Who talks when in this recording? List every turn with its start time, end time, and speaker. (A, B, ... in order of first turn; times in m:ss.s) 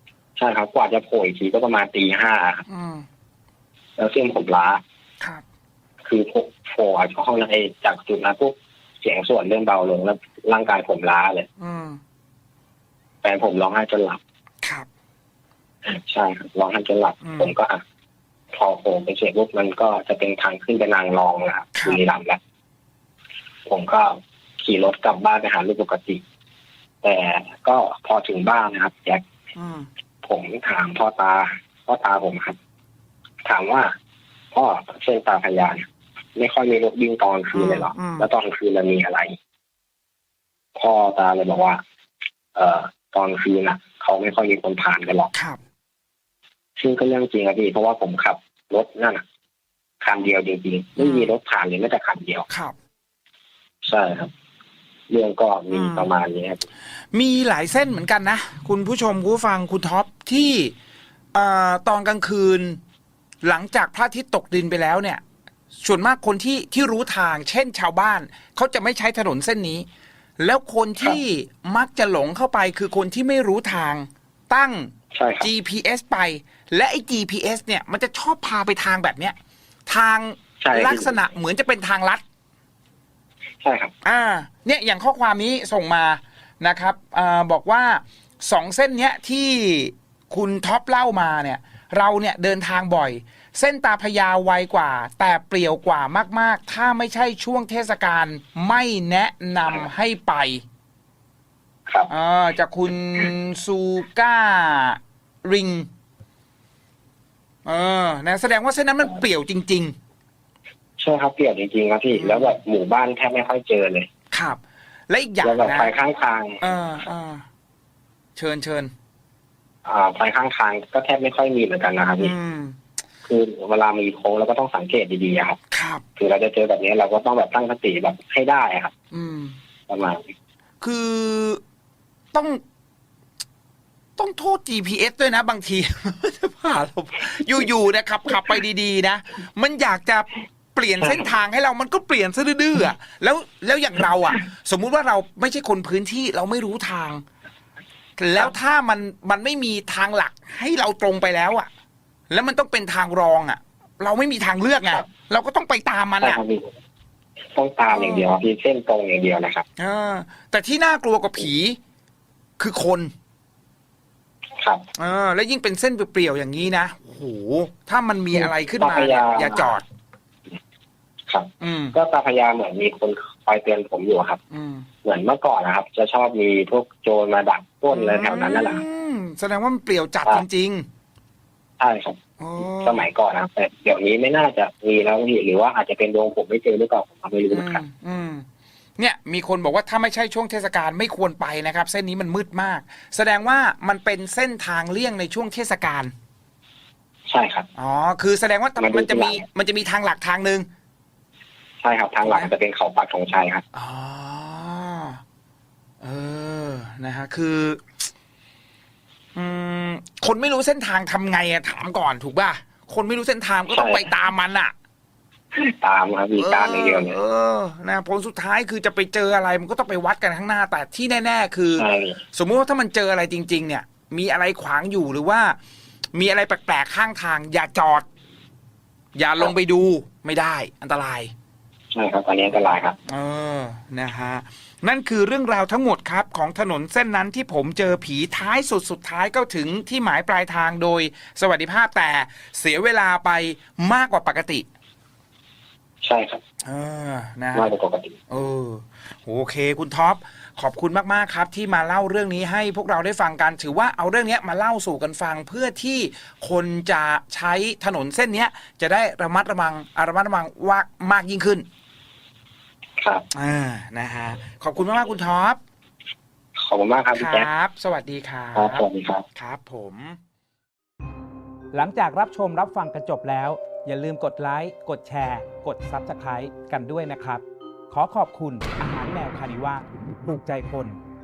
0:00.4-0:02.6 A
0:02.7-0:03.0 B
0:04.0-0:04.8 A
0:06.0-0:11.5 A
0:11.6-0:12.0 B
0:13.2-0:14.2 A
0:15.9-0:17.8 A
0:17.2-0:17.5 B
0:18.5-0:22.4 A
0:21.8-0:22.0 B
0:23.6-0:26.2 A
0:27.0-0:29.2 A
0:29.5-0:29.9 B
0:30.2-0:32.6 A
0:33.4-0:33.9 A
0:34.5-0:39.3 A
0:37.5-0:38.3 B
0:40.7-0:41.8 A
0:42.5-0:45.3 A
0:45.3-0:45.6 B
0:46.8-0:49.2 A
0:50.0-0:52.5 A
0:51.0-0:51.3 B
0:52.5-0:52.7 B
0:53.8-0:54.3 A
0:55.1-0:56.6 A
0:55.7-0:56.1 B
0:57.1-1:00.7 B
1:01.3-1:02.8 B
1:03.4-1:05.2 B
1:05.8-1:09.9 B
1:10.4-1:19.3 B
1:15.1-1:15.5 A
1:19.9-1:22.2 B
1:20.6-1:21.2 A
1:23.6-1:23.9 A
1:24.0-1:40.6 B
1:42.1-1:45.9 B
1:47.6-1:49.9 B
1:51.0-1:54.1 A
1:52.2-1:52.6 B
1:54.3-1:55.9 B
1:55.4-1:56.6 A
1:56.6-1:57.4 B
1:58.4-1:58.9 B
1:59.8-2:02.3 A
2:02.2-2:02.8 B
2:03.2-2:05.6 A
2:05.7-2:06.0 B
2:06.2-2:08.9 A
2:09.1-2:09.6 B
2:09.9-2:10.2 A
2:10.8-2:11.6 B
2:12.3-2:12.6 B
2:14.2-2:27.2 B
2:28.2-2:31.7 B
2:32.3-2:36.4 B
2:36.2-2:36.7 A
2:37.5-2:39.6 A
2:37.9-2:38.3 B
2:39.8-2:41.8 B
2:42.6-2:43.1 B
2:44.6-2:44.8 A
2:45.0-2:49.8 B
2:48.3-2:49.8 A
2:51.3-2:54.4 A
2:51.6-2:51.9 B
2:54.5-2:54.9 B
2:55.0-2:58.8 A
2:57.9-3:00.8 B
3:01.8-3:07.8 A
3:02.4-3:03.0 B
3:07.5-3:08.4 B
3:09.0-3:16.1 B
3:17.3-3:17.7 A
3:17.7-3:20.7 B
3:18.8-3:19.4 A
3:21.8-3:23.6 A
3:22.2-3:22.5 B
3:23.7-3:25.2 B
3:26.0-3:27.8 B
3:29.4-3:34.7 B
3:33.7-3:34.1 A
3:35.5-3:37.2 A
3:36.4-3:45.6 B
3:41.8-3:42.2 A
3:46.1-3:48.0 B
3:49.1-3:51.3 B
3:51.9-3:53.0 A
3:53.0-4:04.6 B
4:06.0-4:06.4 A
4:06.6-4:07.7 B
4:07.5-4:08.2 A
4:08.3-4:21.6 B
4:23.0-4:23.2 A
4:23.3-4:25.6 B
4:26.6-4:27.5 A
4:27.1-4:30.2 B
4:28.5-4:29.2 A
4:31.7-4:41.0 C